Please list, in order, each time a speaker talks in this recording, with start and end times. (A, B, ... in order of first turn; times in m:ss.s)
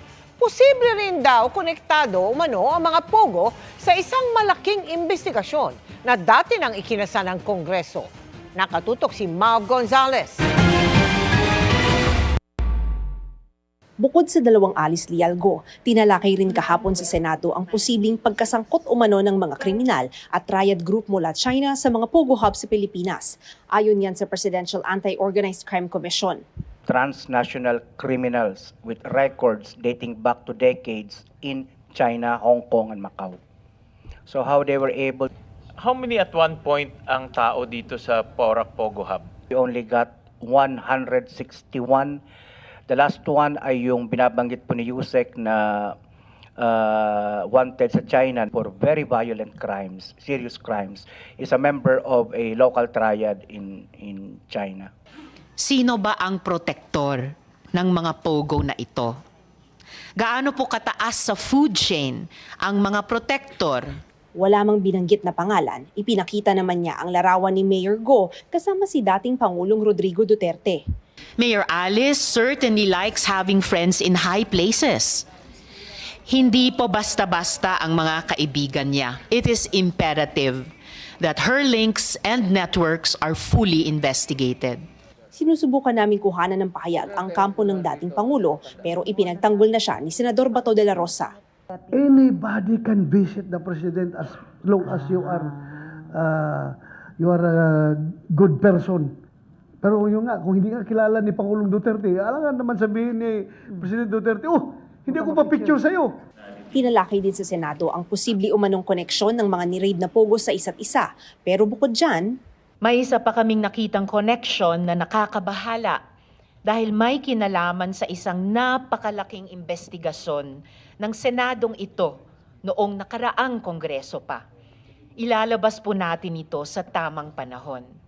0:00.4-0:10.4 A
0:14.0-0:26.4 B
0:26.9-0:33.4 C
0:34.3-0:35.3 C
0:35.8-0:39.3 D
0:39.5-0:42.2 C
0:42.9-0:46.0 C
0:46.6-0:54.9 C
0:55.6-0:59.2 E
1:00.2-1:03.9 E
1:04.4-1:10.8 B
1:11.4-1:15.3 E
1:16.3-1:20.7 E
1:21.2-1:24.8 E
1:25.3-1:31.3 B
1:31.9-1:39.1 F
1:39.8-1:46.2 F
1:46.7-1:52.3 B
1:52.8-1:56.0 E
1:56.6-2:04.4 E
2:05.2-2:07.9 E